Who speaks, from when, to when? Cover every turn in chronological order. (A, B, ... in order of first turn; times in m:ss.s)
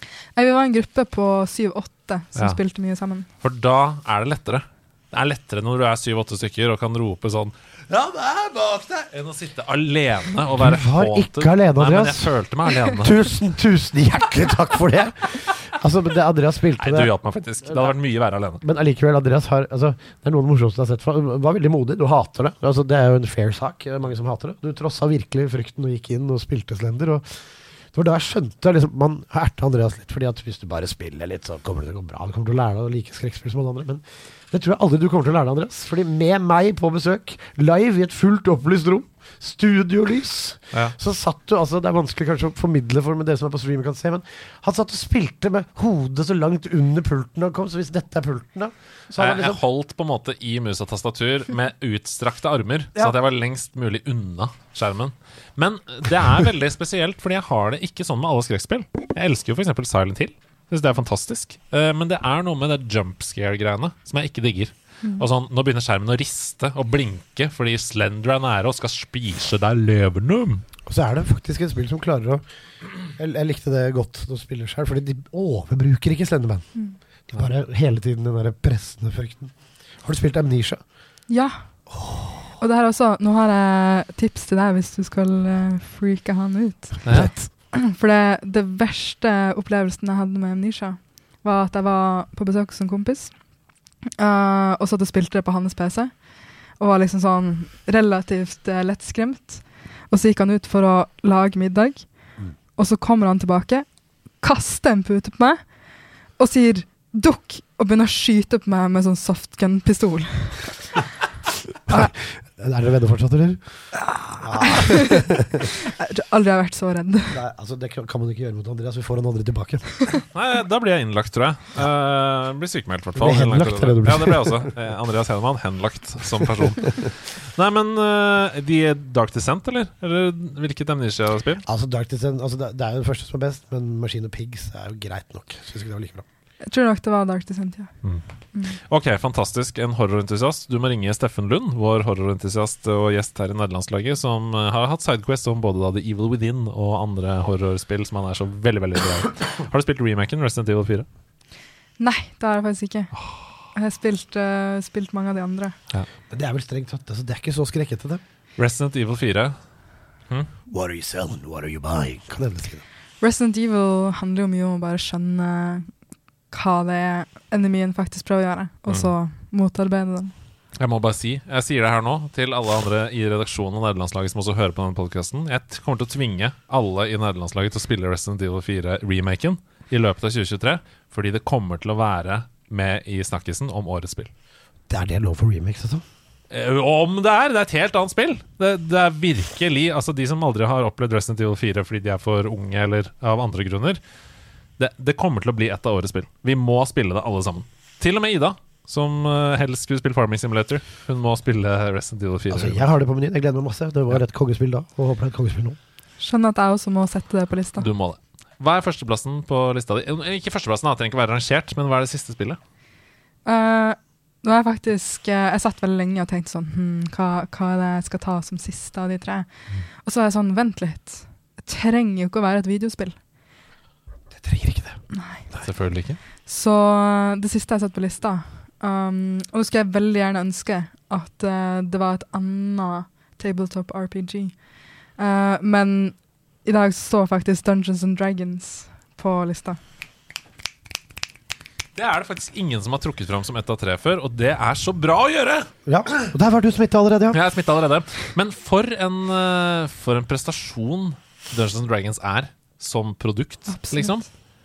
0:00.4-0:03.3 A
0:03.4-0:13.2 B
0:10.6-0:12.3 C
0:12.9-0:17.1 C
0:16.8-0:18.6 B
0:17.7-0:17.9 C
0:18.6-0:49.6 C
0:49.2-1:10.6 B
1:10.9-1:12.4 C
1:13.1-1:20.8 C
1:21.3-1:21.7 A
1:21.9-1:22.4 C
1:22.6-1:33.4 A
1:27.0-1:27.3 B
1:27.1-1:27.5 C
1:34.2-1:50.9 A
1:51.9-1:55.5 C
1:54.7-1:55.3 A
1:56.0-1:57.4 A
1:57.3-2:00.0 C
2:00.3-2:11.6 B
2:03.2-2:04.7 C
2:11.6-2:16.2 C
2:16.6-2:17.9 A
2:18.0-2:31.1 B
2:32.0-2:33.1 A
2:33.2-2:33.4 B
2:33.7-2:35.8 A
2:36.3-2:38.2 C
2:38.6-2:39.6 B
2:40.7-2:42.8 C
2:43.2-2:45.9 A
2:46.5-2:50.3 A
2:50.8-3:04.3 B
3:04.9-3:06.0 C
3:06.5-3:14.0 B
3:14.8-3:22.8 B
3:22.5-3:25.8 C
3:26.2-3:27.9 A
3:27.8-3:32.6 B
3:33.5-3:39.5 A
3:40.0-3:43.2 A
3:44.3-3:45.0 C
3:45.1-3:45.5 A
3:45.6-3:46.2 B
3:46.4-3:59.8 A
4:02.0-4:05.7 B
4:05.9-4:07.4 C
4:07.3-4:14.2 B
4:13.7-4:14.2 A